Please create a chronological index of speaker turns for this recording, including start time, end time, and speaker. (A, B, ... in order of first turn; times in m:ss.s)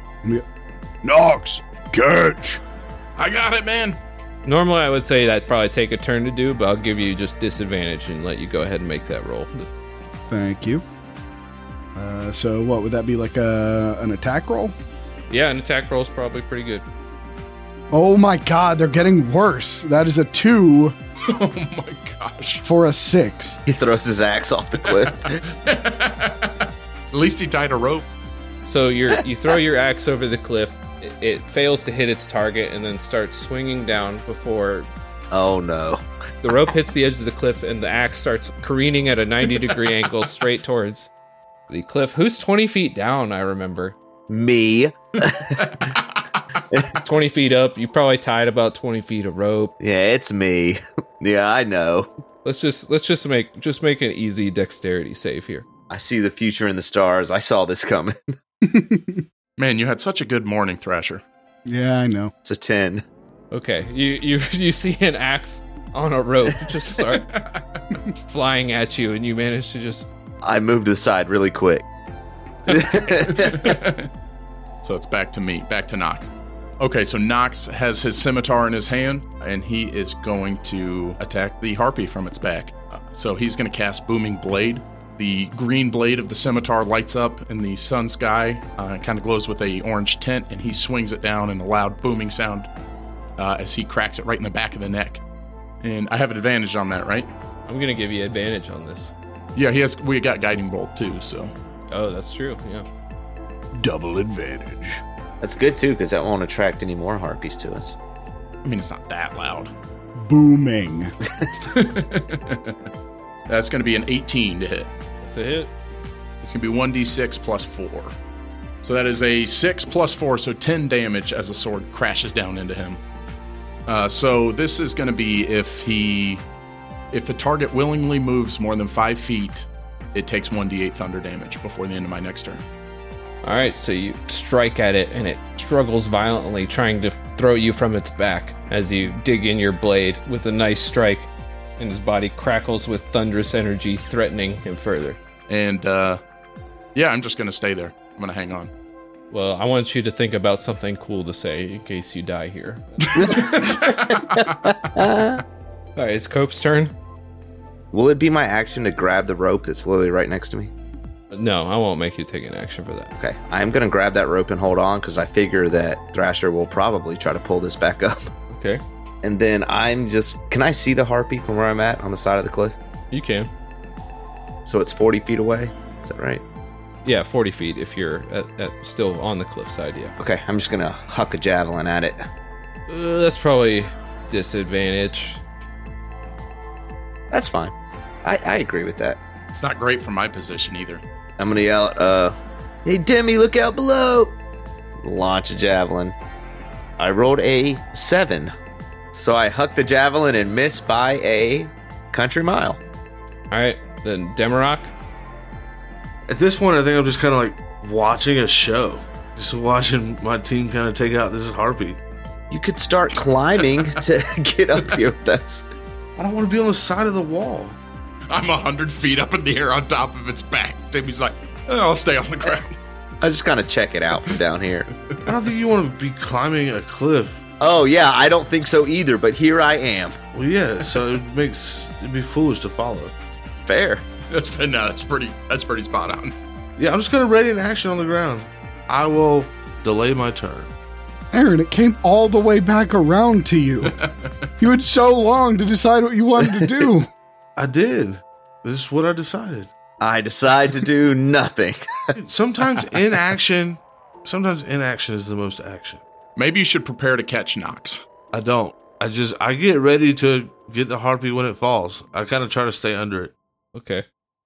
0:01.0-0:02.6 A
0:03.2-0:04.0 B
0:04.4-0:09.7 C
0:10.3-0:10.8 A
0:11.9-0:14.7 A
0:15.3-0:16.8 C
0:17.9-0:21.0 A
0:21.2-0:22.6 B
0:22.6-0:23.6 A
0:23.7-0:25.4 D
0:24.8-0:28.0 B
0:28.6-0:34.9 C
0:35.3-0:36.0 D
0:36.4-0:41.1 C
0:41.7-0:44.0 C
0:44.3-0:45.9 D
0:45.6-0:46.4 B
0:46.9-0:49.7 C
0:49.8-0:52.1 D
0:52.4-0:55.6 C
0:55.9-0:58.2 D
0:58.6-0:59.2 A
0:59.6-1:01.2 B
1:01.6-1:02.3 A
1:02.4-1:03.0 D
1:03.5-1:07.3 C
1:07.2-1:07.8 B
1:08.3-1:10.1 C
1:10.4-1:11.8 D
1:12.7-1:13.8 D
1:13.0-1:14.1 B
1:14.8-1:32.7 B
1:33.4-1:35.2 B
1:35.8-1:37.3 B
1:37.7-1:39.1 C
1:39.5-1:41.5 B
1:41.9-1:42.8 C
1:43.8-1:45.0 A
1:45.4-1:48.0 D
1:48.6-1:49.7 B
1:50.1-1:51.1 A
1:51.6-1:52.8 B
1:53.5-1:54.9 B
1:55.2-1:55.7 C
1:56.4-1:58.1 B
1:58.8-2:03.0 B
2:03.9-2:06.4 B
2:07.1-2:12.6 B
2:13.4-2:25.2 C
2:25.5-2:26.2 B
2:26.9-2:28.7 B
2:29.3-2:33.7 C
2:33.2-2:35.4 D
2:33.2-2:34.6 B
2:36.0-2:36.9 C
2:37.9-2:40.7 D
2:41.3-2:43.1 C
2:43.2-2:48.3 D
2:48.5-2:48.8 C
2:49.2-2:52.8 D
2:53.1-2:53.5 C
2:54.6-2:56.4 D
2:57.0-3:00.1 C
3:00.2-3:02.2 D
3:02.9-3:05.4 C
3:07.3-3:09.2 D
3:09.5-3:11.0 B
3:11.4-3:14.3 D
3:15.0-3:16.1 D
3:17.0-3:18.5 D
3:19.1-3:22.8 D
3:23.5-3:24.9 C
3:26.3-3:32.0 E
3:32.5-3:35.7 D
3:36.2-3:37.8 E
3:38.3-3:42.8 B
3:43.2-3:44.9 D
3:45.2-3:47.4 E
3:47.6-3:50.2 D
3:50.3-3:53.1 E
3:53.7-3:54.0 D
3:54.3-3:56.3 B
3:56.8-4:00.7 E
4:01.3-4:04.0 A
4:03.9-4:04.3 B
4:04.6-4:07.1 A
4:07.6-4:09.7 E
4:10.0-4:12.1 D
4:12.1-4:16.0 E
4:16.4-4:18.0 B
4:18.3-4:23.3 E
4:23.7-4:24.0 C